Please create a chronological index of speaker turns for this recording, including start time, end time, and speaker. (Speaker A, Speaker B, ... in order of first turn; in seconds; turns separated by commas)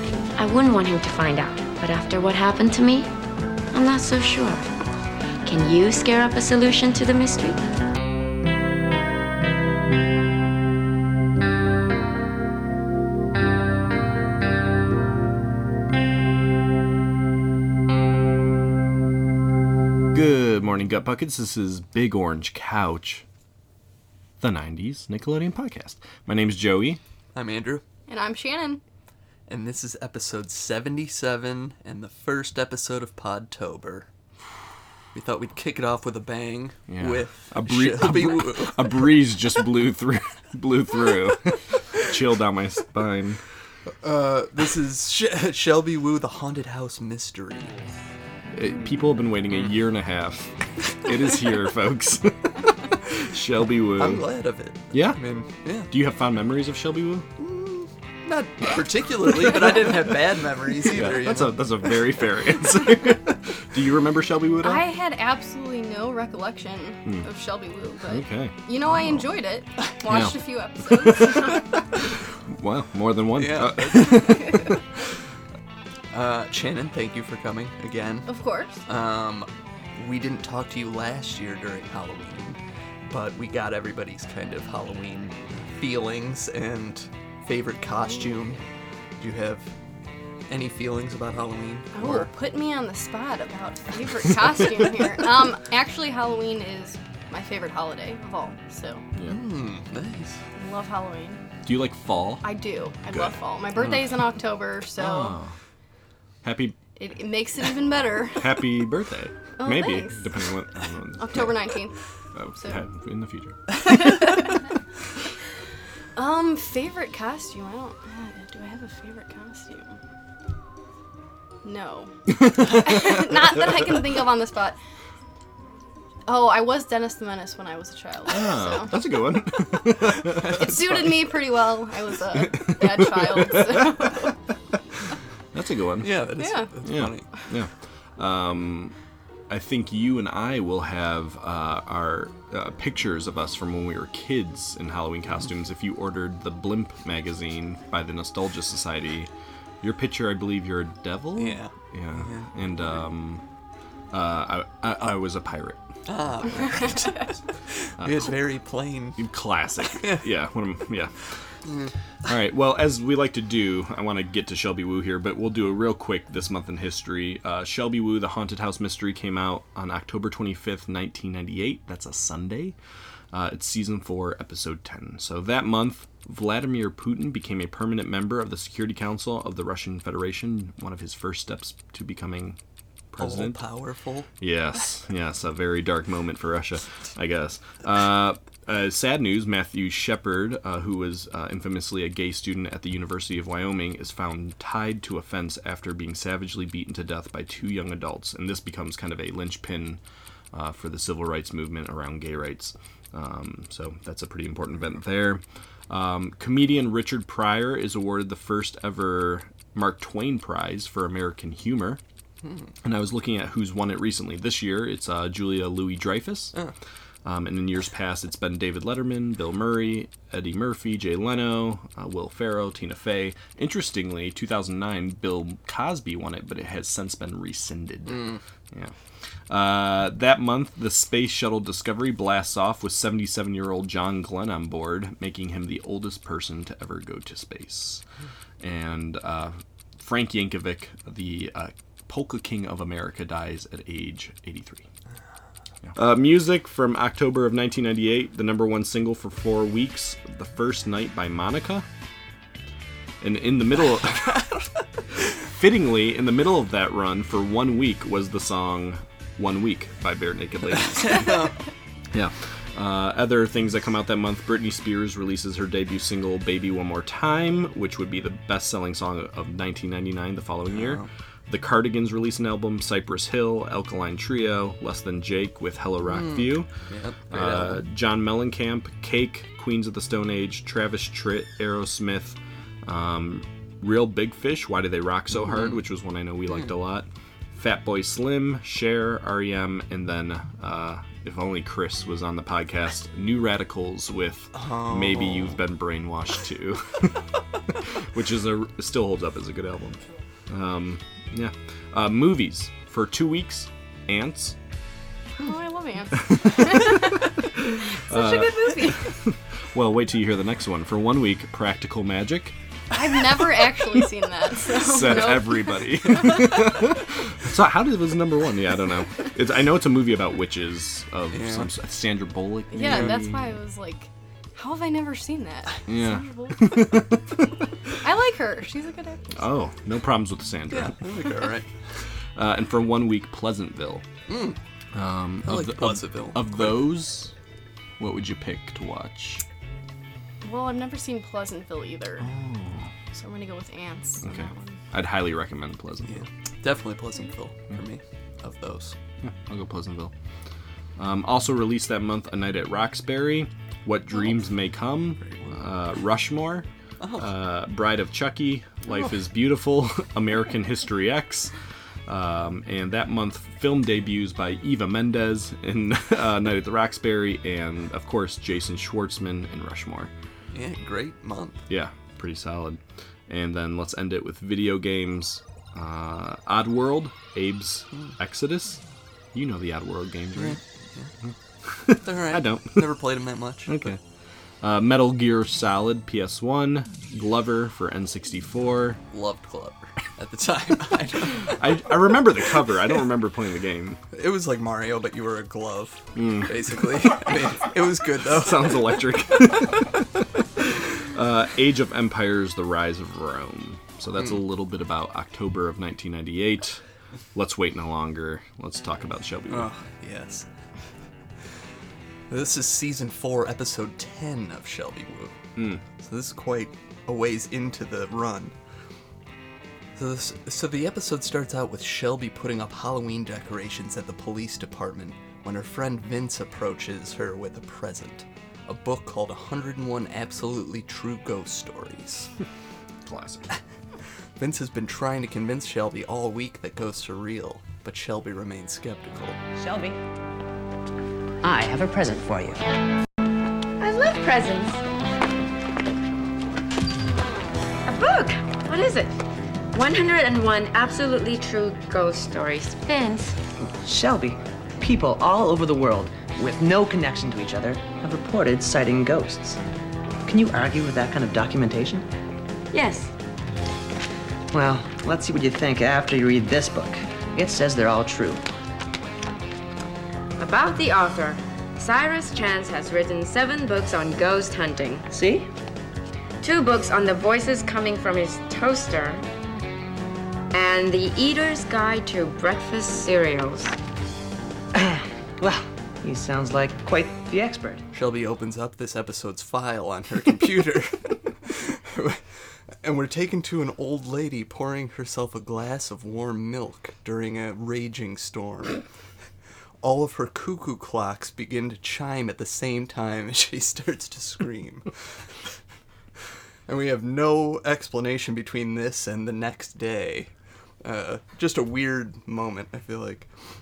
Speaker A: 0.3-3.1, Speaker A: 3.7-4.7, Speaker A: 5.4-7.7, Speaker B: 20.1-23.2, Speaker B: 24.4-27.0, Speaker C: 27.3-27.8, Speaker D: 28.1-28.8, Speaker C: 29.5-34.1, Speaker C: 35.1-39.1, Speaker B: 36.9-43.4, Speaker C: 44.0-47.7, Speaker B: 48.5-54.2, Speaker C: 54.0-55.9, Speaker B: 54.9-55.2, Speaker B: 55.9-57.3, Speaker C: 57.4-61.9, Speaker B: 59.4-60.1, Speaker B: 60.8-64.8, Speaker C: 62.8-63.1, Speaker D: 64.6-71.7, Speaker B: 68.0-68.5, Speaker B: 70.1-70.3, Speaker B: 70.9-74.8, Speaker C: 73.3-74.7, Speaker C: 76.1-78.3, Speaker D: 78.3-78.8, Speaker C: 78.8-88.6, Speaker C: 89.2-89.7, Speaker C: 90.5-92.3, Speaker D: 91.9-99.0, Speaker C: 99.2-100.4, Speaker D: 100.5-101.4, Speaker B: 101.6-102.5, Speaker D: 102.4-105.3, Speaker B: 103.1-103.3, Speaker C: 103.8-104.2, Speaker B: 105.0-105.5, Speaker B: 106.4-106.8, Speaker D: 107.0-108.7, Speaker B: 108.4-111.5, Speaker D: 109.6-110.4, Speaker D: 111.2-112.0, Speaker B: 112.3-114.2, Speaker D: 114.1-114.5, Speaker D: 116.2-120.0, Speaker D: 121.6-124.8, Speaker B: 122.4-123.2, Speaker D: 126.2-128.9, Speaker B: 128.3-131.0, Speaker C: 130.2-131.3, Speaker D: 130.6-134.3, Speaker B: 132.4-134.2, Speaker B: 135.5-136.2, Speaker C: 136.0-137.3, Speaker D: 136.4-136.7, Speaker B: 136.8-138.9, Speaker B: 139.5-149.3, Speaker B: 149.8-153.4, Speaker C: 151.3-152.5, Speaker B: 154.1-155.8, Speaker C: 156.1-159.2, Speaker B: 156.5-156.9, Speaker B: 158.0-158.4, Speaker B: 159.2-161.3, Speaker C: 159.9-160.3, Speaker C: 161.6-161.9, Speaker B: 162.2-172.7, Speaker B: 173.3-182.6, Speaker B: 183.1-183.6, Speaker C: 183.2-184.3, Speaker B: 184.4-200.0, Speaker B: 200.5-212.0, Speaker C: 212.4-212.7, Speaker B: 212.8-216.6, Speaker B: 217.2-228.9, Speaker C: 228.1-228.4, Speaker B: 229.5-238.0, Speaker B: 238.6-244.8, Speaker B: 245.9-251.8, Speaker B: 253.2-254.4, Speaker C: 253.8-254.8, Speaker B: 255.3-261.5, Speaker C: 260.7-261.5, Speaker B: 262.1-276.7, Speaker C: 270.7-271.1, Speaker C: 276.0-277.8, Speaker B: 277.3-304.5, Speaker C: 285.3-285.8, Speaker C: 294.5-295.6, Speaker D: 305.4-307.2, Speaker B: 306.2-312.5, Speaker D: 308.1-308.9, Speaker D: 312.9-316.6, Speaker B: 314.7-323.6, Speaker C: 321.3-321.7, Speaker D: 322.7-326.6, Speaker B: 325.9-327.5, Speaker D: 328.0-329.4, Speaker B: 329.3-331.0, Speaker C: 330.7-331.7, Speaker B: 332.3-334.1, Speaker C: 334.3-334.6, Speaker B: 334.9-337.3, Speaker C: 335.4-336.9, Speaker B: 338.0-339.4, Speaker D: 340.4-342.3, Speaker B: 342.2-342.9, Speaker D: 343.1-344.8, Speaker B: 344.2-346.2, Speaker C: 346.1-348.9, Speaker B: 349.2-350.1, Speaker B: 351.0-356.7, Speaker C: 355.2-355.6, Speaker C: 357.0-357.3, Speaker B: 357.2-361.5, Speaker B: 362.1-370.1, Speaker C: 370.5-371.7, Speaker B: 371.7-378.8, Speaker B: 379.3-380.6, Speaker C: 380.3-381.1, Speaker B: 381.2-382.9, Speaker C: 382.0-383.9, Speaker B: 383.6-384.0, Speaker B: 384.6-389.0, Speaker C: 389.1-392.9, Speaker B: 391.3-394.0, Speaker C: 394.1-399.0, Speaker B: 396.1-397.2, Speaker B: 398.3-400.0, Speaker B: 400.6-406.8, Speaker B: 407.3-409.7, Speaker C: 409.5-410.5, Speaker C: 412.3-415.4, Speaker B: 415.6-415.8, Speaker C: 416.0-418.5, Speaker C: 419.9-432.3, Speaker B: 433.1-433.5, Speaker C: 434.4-439.4, Speaker E: 439.6-440.0, Speaker E: 441.4-442.6, Speaker A: 443.9-444.7, Speaker A: 447.9-449.2, Speaker A: 449.7-453.4, Speaker E: 453.8-459.6, Speaker E: 460.2-462.1, Speaker A: 462.7-463.1, Speaker E: 464.5-468.4, Speaker A: 470.4-475.1, Speaker E: 475.1-475.5, Speaker A: 476.4-479.2, Speaker A: 480.5-483.8, Speaker E: 484.7-487.8, Speaker C: 487.9-498.8, Speaker C: 499.8-504.9, Speaker C: 506.7-513.3